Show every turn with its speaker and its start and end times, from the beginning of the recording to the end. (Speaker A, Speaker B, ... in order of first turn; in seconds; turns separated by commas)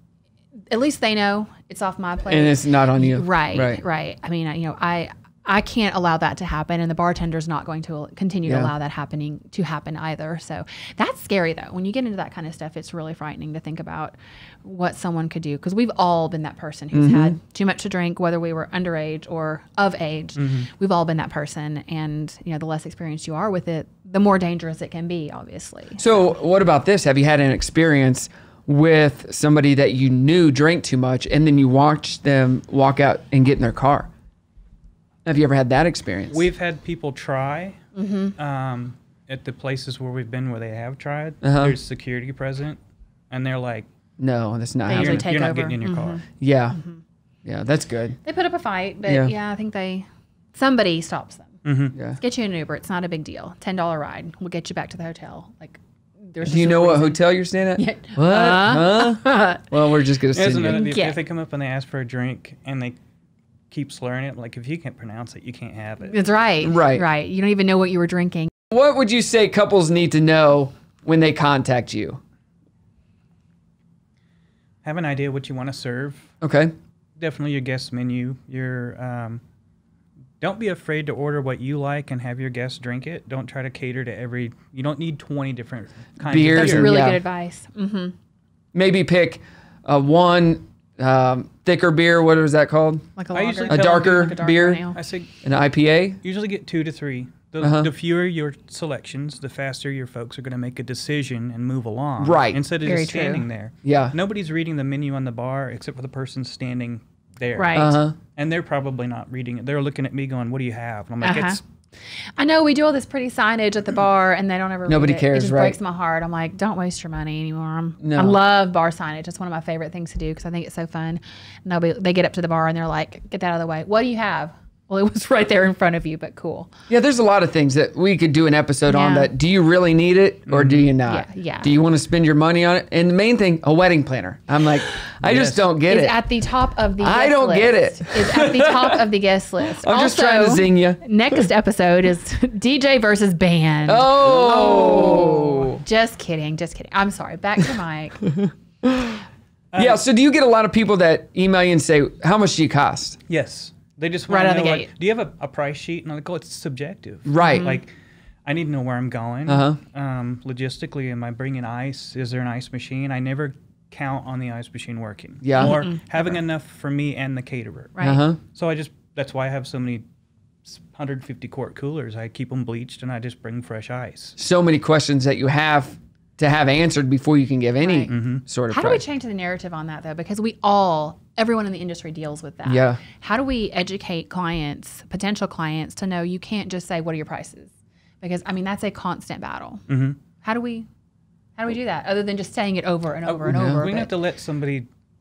Speaker A: 0.7-26.2, Speaker B: 2.3-3.8, Speaker B: 8.4-8.7, Speaker B: 16.9-17.4, Speaker C: 20.4-20.7, Speaker B: 26.0-34.1, Speaker B: 35.2-36.5, Speaker C: 36.3-37.8, Speaker A: 37.9-38.3, Speaker C: 38.4-42.8, Speaker B: 41.4-41.8, Speaker C: 43.3-43.9, Speaker B: 44.2-45.3, Speaker A: 44.9-47.0, Speaker C: 44.9-46.2, Speaker B: 46.4-46.8, Speaker B: 47.4-48.2, Speaker A: 48.2-51.6, Speaker B: 49.0-49.3, Speaker C: 51.6-52.0, Speaker B: 51.9-52.2, Speaker A: 52.2-57.2, Speaker B: 56.4-60.9, Speaker A: 57.8-59.6, Speaker C: 60.3-63.0, Speaker A: 60.7-61.2, Speaker C: 63.7-66.2, Speaker A: 66.1-68.5, Speaker B: 66.6-67.0, Speaker B: 68.7-72.2, Speaker C: 74.8-76.3, Speaker B: 76.4-76.7, Speaker C: 77.2-79.4, Speaker C: 80.4-87.0, Speaker B: 86.2-87.2, Speaker A: 86.5-88.1, Speaker B: 88.7-93.1, Speaker A: 93.2-95.0, Speaker C: 93.3-94.4, Speaker B: 93.7-94.8, Speaker C: 94.9-95.3, Speaker B: 95.4-96.2, Speaker C: 96.2-111.6, Speaker B: 97.6-97.9, Speaker B: 102.2-102.6, Speaker A: 102.8-103.5, Speaker B: 103.8-104.2, Speaker A: 107.5-108.0, Speaker B: 107.7-108.2, Speaker A: 111.2-111.6, Speaker A: 112.3-126.7, Speaker B: 114.9-115.8, Speaker B: 118.0-118.4, Speaker B: 126.9-136.2, Speaker A: 128.9-129.3, Speaker C: 130.4-130.9, Speaker A: 131.0-131.7, Speaker C: 135.2-135.6, Speaker A: 135.8-148.3, Speaker B: 137.0-139.0, Speaker B: 139.8-141.4, Speaker B: 143.9-145.8, Speaker B: 148.3-149.2, Speaker C: 149.7-150.0, Speaker B: 149.8-153.2, Speaker C: 153.3-157.9, Speaker A: 154.3-154.9, Speaker B: 157.2-157.7, Speaker A: 157.4-157.8, Speaker C: 158.4-170.0, Speaker B: 159.5-159.8, Speaker B: 165.4-165.8, Speaker A: 165.6-166.0, Speaker A: 167.9-168.2, Speaker B: 168.0-168.4, Speaker C: 170.6-174.4, Speaker B: 174.4-179.0, Speaker A: 177.8-178.1, Speaker C: 178.1-178.4, Speaker A: 178.7-189.8, Speaker B: 182.6-183.0, Speaker C: 189.9-190.2, Speaker A: 190.4-190.9, Speaker A: 191.6-194.1, Speaker C: 193.2-194.9, Speaker B: 193.5-193.8